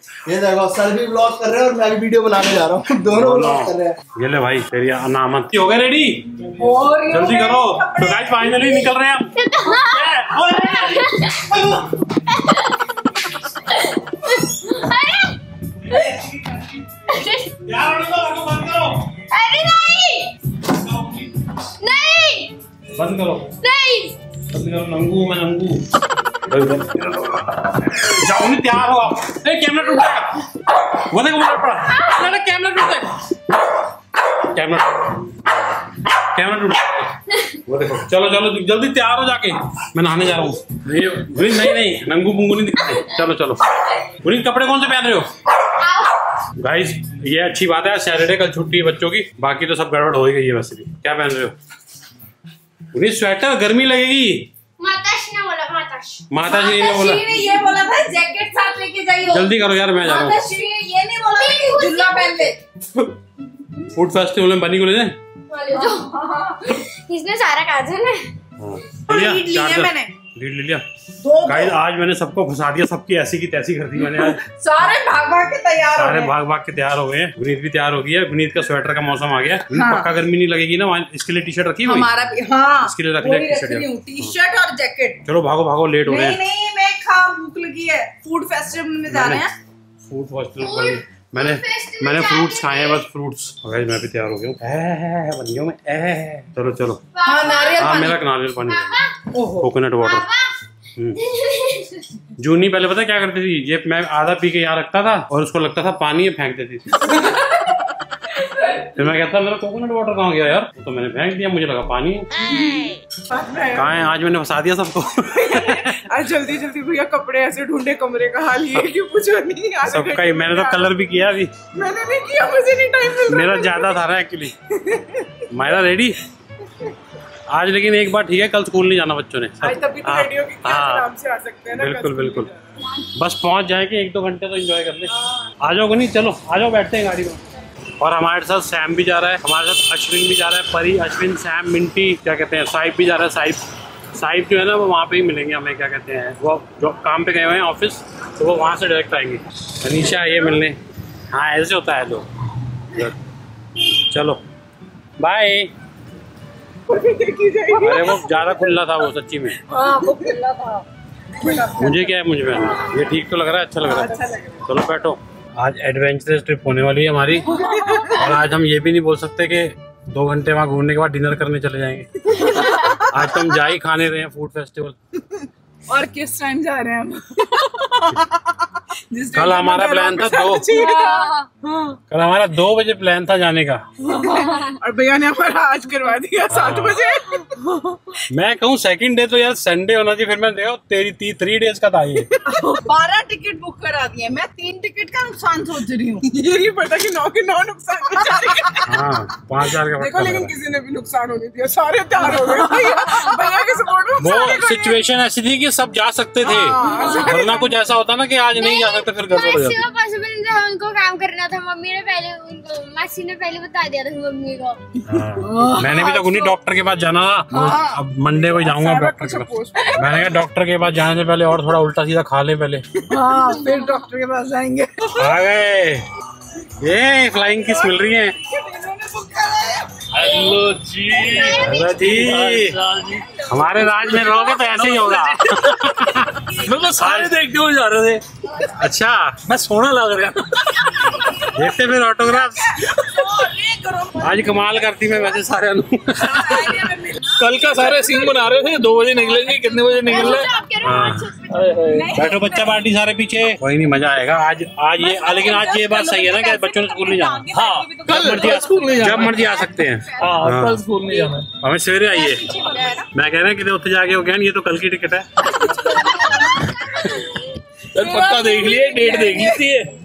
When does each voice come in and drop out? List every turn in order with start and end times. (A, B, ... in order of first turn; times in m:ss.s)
0:00.3-0:04.0 A
0:03.1-0:06.5 B
0:06.6-0:08.4 C
0:07.1-0:11.8 B
0:09.4-0:11.4 D
0:12.4-0:12.7 D
0:14.5-0:15.4 D
0:15.9-0:16.2 B
0:17.1-0:17.5 D
0:17.6-0:19.1 B
0:19.3-0:20.3 D
0:20.8-0:21.3 B
0:21.8-0:22.5 D
0:23.0-0:23.5 B
0:23.6-0:24.2 D
0:24.5-0:25.8 B
0:26.5-0:30.4 B
0:31.0-0:33.2 B
0:34.4-0:35.1 B
0:36.2-0:43.7 B
0:44.2-0:45.3 B
0:45.8-0:46.1 D
0:46.6-0:51.6 B
0:52.9-0:54.5 B
0:54.8-0:56.5 D
0:56.3-0:57.3 B
0:56.4-1:02.6 C
0:59.3-1:00.4 B
1:01.3-1:02.5 D
1:03.9-1:05.2 B
1:05.5-1:08.3 D
1:06.2-1:06.6 C
1:08.6-1:10.8 B
1:09.1-1:10.1 C
1:11.2-1:11.8 C
1:11.4-1:14.4 B
1:14.2-1:16.3 C
1:15.9-1:22.1 B
1:19.7-1:20.1 C
1:21.9-1:25.2 C
1:22.8-1:24.4 B
1:25.2-1:26.4 B
1:26.1-1:29.5 C
1:29.1-1:29.4 B
1:30.1-1:37.0 B
1:30.6-1:33.0 D
1:37.1-1:39.2 D
1:37.2-1:38.2 C
1:37.8-1:39.0 B
1:39.3-1:39.7 C
1:39.6-1:40.3 B
1:40.0-1:40.5 D
1:41.0-1:41.2 B
1:41.2-1:42.0 D
1:42.4-1:47.2 B
1:49.0-1:52.3 B
1:53.3-1:53.8 C
1:53.7-1:56.0 B
1:55.4-2:00.8 C
1:59.8-2:01.5 B
2:01.8-2:03.8 C
2:03.2-2:04.5 B
2:05.5-2:06.2 B
2:07.5-2:11.1 B
2:09.6-2:12.4 C
2:11.7-2:12.5 B
2:13.1-2:17.4 B
2:18.0-2:23.6 B
2:24.2-2:30.8 B
2:31.3-2:32.3 B
2:34.1-2:34.4 B
2:35.2-2:35.7 B
2:36.9-2:38.2 C
2:37.8-2:39.6 B
2:39.7-2:40.8 C
2:41.4-2:42.1 C
2:41.8-2:55.0 B
2:44.0-2:44.5 C
2:47.6-2:48.2 C
2:52.6-2:52.9 C
2:55.9-2:58.2 C
2:59.1-3:01.9 C
2:59.3-3:00.9 B
3:01.0-3:01.3 D
3:02.1-3:03.8 B
3:04.0-3:07.6 C
3:06.5-3:07.0 B
3:08.3-3:12.4 B
3:12.4-3:18.9 C
3:18.8-3:20.6 B
3:20.0-3:25.0 C
3:24.2-3:29.9 B
3:24.2-3:24.7 D
3:26.5-3:27.6 C
3:26.8-3:27.4 D
3:28.6-3:34.8 D
3:35.1-3:42.9 B
3:35.4-3:36.4 C
3:37.5-3:37.9 C
3:38.8-3:40.3 C
3:43.1-3:45.2 C
3:45.2-3:46.1 B
3:46.8-3:48.4 B
3:48.4-3:49.9 C
3:50.1-3:53.4 E
3:51.6-3:52.8 B
3:53.5-3:57.4 B
3:53.9-3:55.9 E
3:56.6-3:58.2 E
3:58.8-3:59.4 B
3:59.5-4:00.9 E
4:01.5-4:02.8 B
4:02.5-4:04.5 C
4:04.2-4:06.8 B
4:06.2-4:08.3 C
4:07.4-4:10.5 E
4:10.0-4:11.7 D
4:10.1-4:10.4 C
4:10.8-4:11.3 B
4:11.5-4:12.2 E
4:11.8-4:12.9 C
4:12.1-4:17.5 B
4:15.0-4:20.4 C
4:17.5-4:19.5 E
4:18.1-4:20.8 B
4:20.2-4:21.5 E
4:21.6-4:22.5 B
4:22.1-4:23.1 C
4:23.1-4:25.3 B
4:25.7-4:26.4 C
4:28.0-4:29.9 E
4:28.0-4:29.6 C